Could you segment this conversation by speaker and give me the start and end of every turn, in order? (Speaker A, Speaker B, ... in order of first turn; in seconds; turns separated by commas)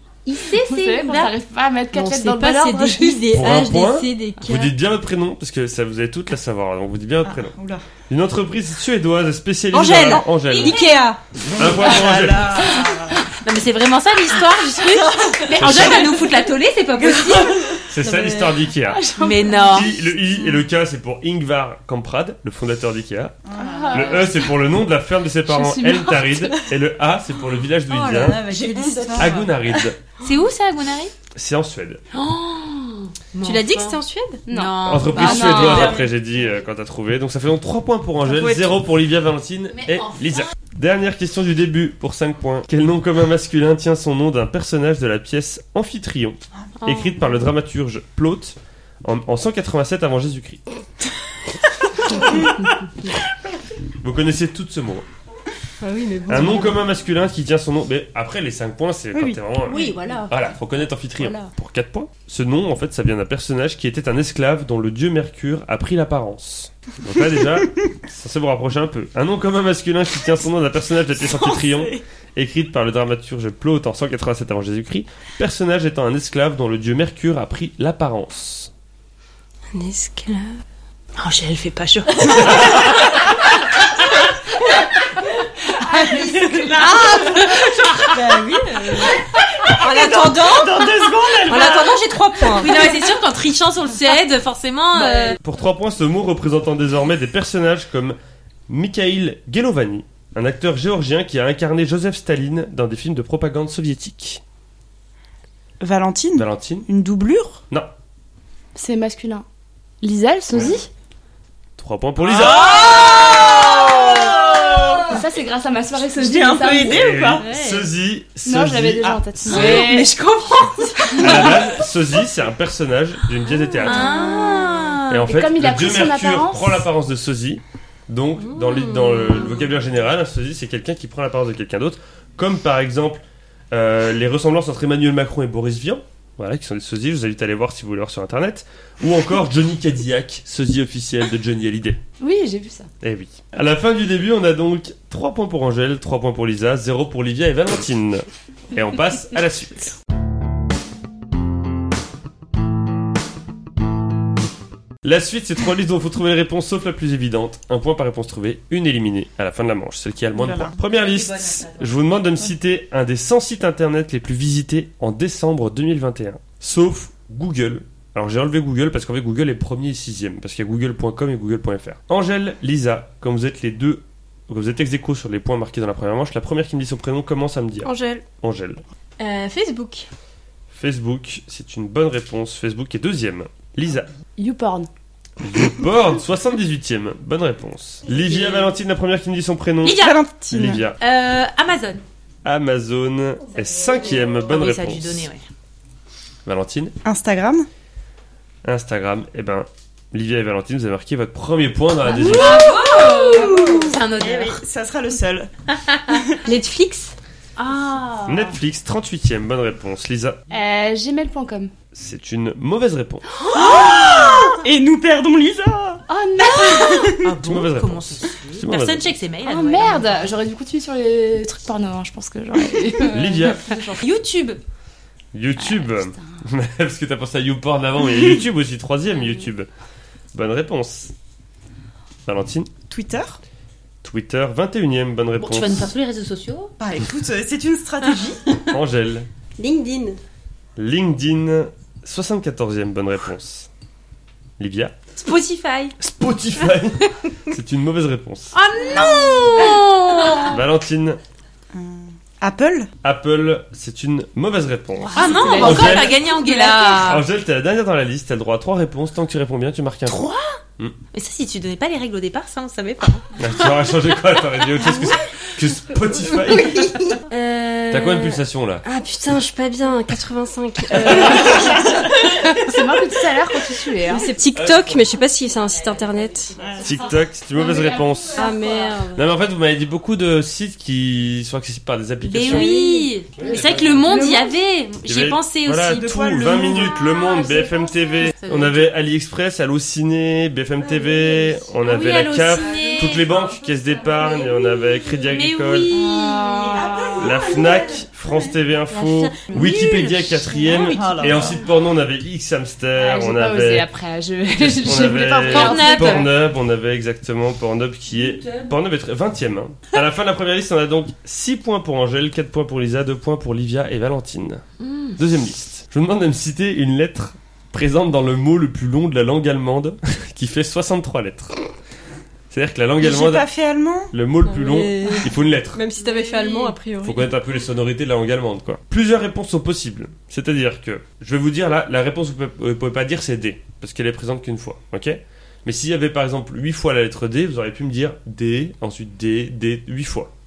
Speaker A: 0.2-1.3, Speaker B: 0.5-3.2, Speaker C: 1.9-4.7, Speaker D: 3.3-7.5, Speaker E: 7.3-7.8, Speaker D: 8.1-10.8, Speaker C: 9.7-11.2, Speaker A: 10.5-11.1, Speaker E: 11.5-13.3, Speaker D: 11.5-12.9, Speaker A: 13.3-17.8, Speaker C: 14.9-15.8, Speaker D: 15.5-16.1, Speaker E: 17.1-17.7, Speaker D: 17.9-19.0, Speaker C: 18.0-18.7, Speaker B: 18.8-19.9, Speaker A: 19.2-19.9, Speaker D: 19.7-23.4, Speaker E: 23.4-24.3, Speaker B: 23.6-24.4, Speaker D: 23.9-28.5, Speaker B: 25.5-26.5, Speaker C: 27.9-29.9, Speaker E: 28.4-29.5, Speaker D: 29.1-30.0, Speaker A: 30.2-31.1, Speaker D: 31.3-32.0, Speaker A: 32.1-36.0, Speaker C: 33.4-34.4, Speaker B: 34.5-36.0, Speaker D: 34.8-50.6, Speaker C: 35.2-36.1, Speaker E: 38.2-38.8, Speaker A: 39.7-40.4, Speaker A: 46.8-47.2, Speaker D: 54.0-55.0, Speaker C: 55.8-56.8, Speaker D: 56.3-78.7, Speaker E: 59.1-59.9, Speaker C: 59.6-60.5, Speaker C: 61.2-61.5, Speaker E: 71.2-72.0, Speaker C: 79.7-80.6, Speaker A: 81.2-83.1, Speaker C: 81.9-83.1, Speaker B: 85.8-87.3, Speaker E: 86.1-92.5, Speaker C: 88.1-93.0, Speaker A: 92.5-95.4, Speaker C: 95.0-95.4, Speaker D: 95.4-98.2, Speaker D: 98.7-104.4, Speaker E: 105.8-107.6, Speaker D: 106.3-106.9, Speaker B: 108.7-109.4, Speaker B: 110.0-110.9, Speaker D: 111.8-112.9, Speaker E: 112.2-115.2, Speaker B: 115.1-117.0, Speaker E: 116.1-117.5, Speaker D: 116.8-119.2, Speaker A: 117.4-117.9, Speaker B: 118.4-120.1, Speaker E: 119.0-119.8, Speaker C: 119.5-121.9, Speaker D: 121.2-124.2, Speaker C: 123.8-125.0, Speaker A: 123.8-125.2, Speaker D: 125.1-142.0, Speaker B: 125.2-126.8, Speaker C: 128.4-129.7, Speaker B: 142.2-142.9, Speaker D: 143.0-149.9, Speaker D: 155.0-178.8, Speaker E: 160.3-160.8, Speaker A: 160.9-161.9, Speaker C: 177.8-178.2, Speaker C: 179.2-180.1, Speaker D: 180.7-184.1, Speaker B: 184.4-184.9, Speaker D: 185.4-191.0, Speaker E: 188.1-188.6, Speaker E: 189.8-190.8, Speaker A: 189.8-190.2, Speaker A: 191.0-192.0, Speaker D: 192.4-195.2, Speaker A: 194.4-195.4, Speaker D: 196.4-196.9, Speaker E: 197.0-197.7, Speaker D: 198.6-202.7, Speaker B: 202.1-203.9, Speaker A: 202.1-204.6, Speaker E: 202.8-205.5, Speaker A: 205.8-206.2, Speaker E: 206.1-206.4, Speaker C: 206.4-207.1, Speaker A: 207.6-208.6, Speaker D: 208.3-210.4, Speaker B: 210.5-211.7, Speaker D: 211.9-213.2, Speaker B: 213.4-214.6, Speaker E: 213.5-216.0, Speaker A: 213.6-214.5, Speaker B: 216.1-217.2, Speaker A: 216.5-220.3, Speaker E: 216.7-217.4, Speaker D: 217.4-219.1, Speaker B: 219.4-224.0, Speaker D: 223.1-223.6, Speaker A: 224.0-224.6, Speaker D: 225.3-229.7, Speaker B: 225.6-226.4, Speaker D: 230.3-231.1, Speaker D: 232.2-232.7, Speaker E: 232.9-233.4, Speaker D: 234.0-235.9, Speaker A: 235.4-236.7, Speaker E: 236.8-238.6, Speaker D: 238.7-239.3, Speaker C: 239.6-240.2, Speaker D: 240.8-243.7, Speaker D: 244.6-244.9, Speaker A: 245.2-245.9, Speaker D: 246.0-248.5, Speaker A: 248.5-250.6, Speaker D: 250.4-251.2, Speaker E: 251.7-252.9, Speaker D: 253.0-256.2, Speaker B: 255.1-257.0, Speaker A: 255.1-257.2, Speaker D: 256.9-260.9, Speaker A: 260.1-260.4, Speaker A: 261.1-263.2, Speaker D: 263.4-266.9, Speaker C: 267.3-272.1, Speaker D: 267.9-268.8, Speaker D: 270.9-271.4, Speaker B: 272.5-274.3, Speaker C: 274.1-276.6, Speaker D: 274.5-275.1, Speaker E: 276.6-276.9, Speaker D: 276.8-278.4, Speaker B: 277.5-278.9, Speaker C: 278.4-279.2, Speaker D: 279.1-282.7, Speaker A: 282.2-286.8, Speaker C: 282.4-283.1, Speaker D: 283.4-284.2, Speaker B: 284.0-284.5, Speaker D: 285.0-295.9, Speaker E: 285.9-287.0, Speaker B: 287.0-288.3, Speaker A: 288.3-288.9, Speaker A: 291.8-293.4, Speaker A: 295.2-296.8, Speaker B: 295.9-297.6, Speaker E: 296.8-298.0, Speaker D: 297.2-303.9, Speaker C: 298.9-300.0, Speaker A: 299.5-301.6, Speaker E: 300.7-301.6, Speaker B: 302.9-306.3, Speaker D: 304.6-314.6, Speaker A: 305.4-306.3, Speaker A: 314.8-315.1, Speaker D: 315.1-321.6, Speaker D: 322.5-323.4, Speaker E: 323.0-324.1, Speaker D: 324.1-325.8, Speaker C: 324.4-327.3, Speaker D: 327.0-340.3